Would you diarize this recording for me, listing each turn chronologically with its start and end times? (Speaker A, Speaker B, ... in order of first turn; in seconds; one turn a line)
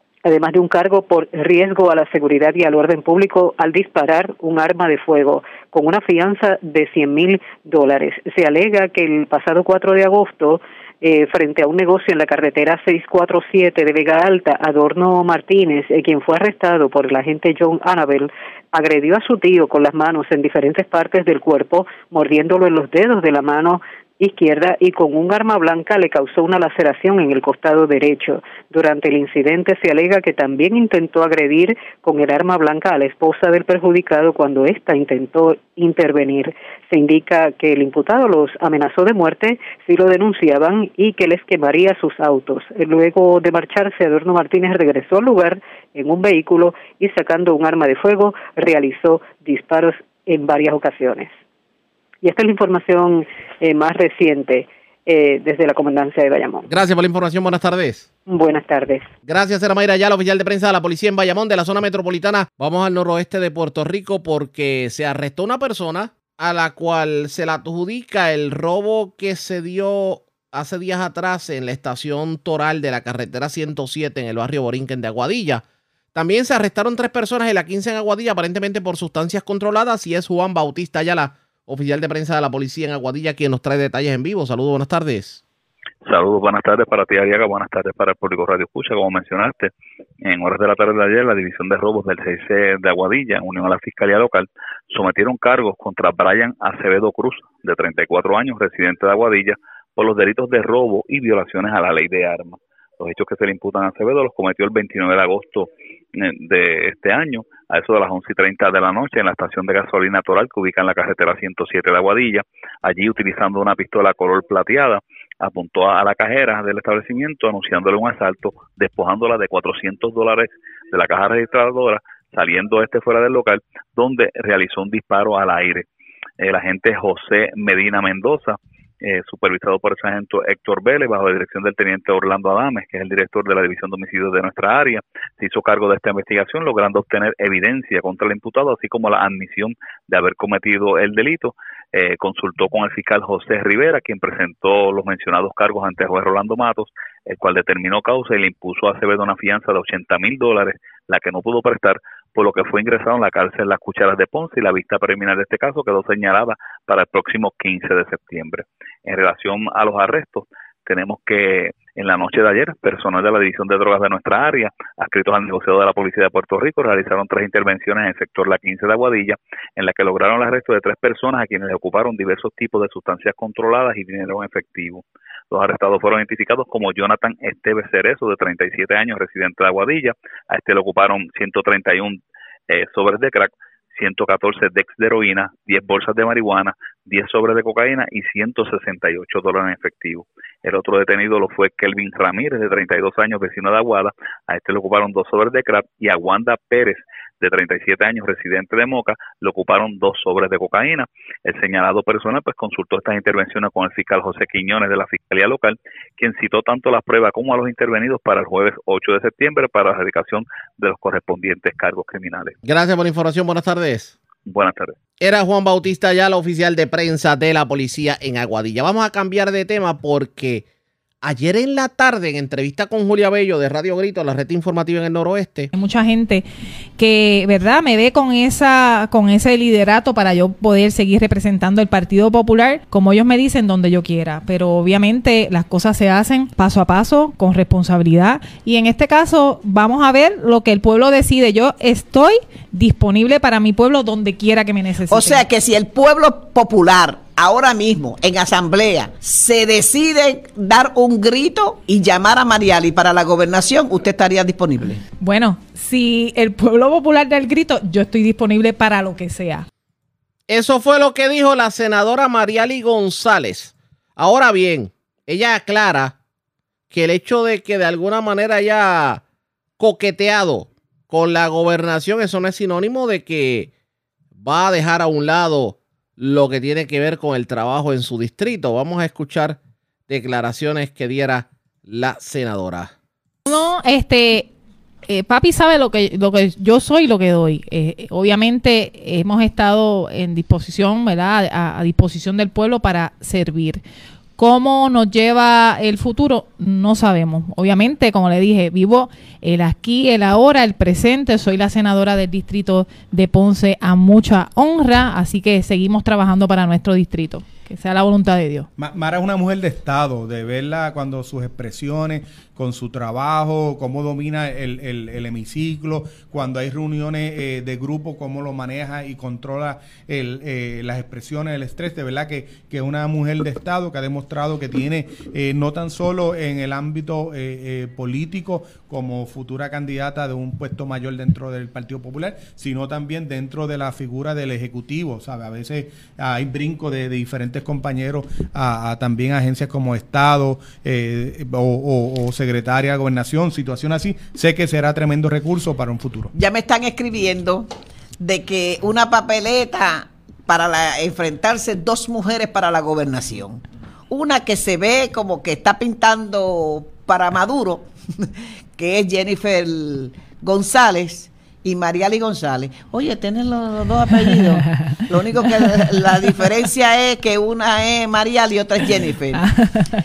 Speaker A: 0.2-51.3
Speaker A: 52.2-56.6
Speaker B: 56.6-58.1
Speaker A: 58.2-59.1
Speaker B: 59.2-85.4
Speaker C: 86.0-89.7
Speaker C: 90.2-125.8
Speaker C: 126.4-212.6
Speaker B: 212.6-214.1
Speaker C: 214.4-214.9
Speaker B: 215.2-220.6
Speaker B: 221.2-225.7
Speaker D: 225.7-226.4
Speaker D: 227.0-245.4
Speaker E: 245.1-255.0
Speaker D: 255.2-259.6
Speaker B: 260.5-266.2
Speaker B: 266.9-269.2
Speaker B: 269.8-273.7
Speaker B: 274.4-282.9
Speaker D: 283.4-284.5
Speaker D: 285.1-293.8
Speaker D: 294.4-308.7
Speaker F: 308.8-346.3
Speaker E: 346.3-347.7
Speaker E: 348.2-357.9
Speaker E: 358.8-369.4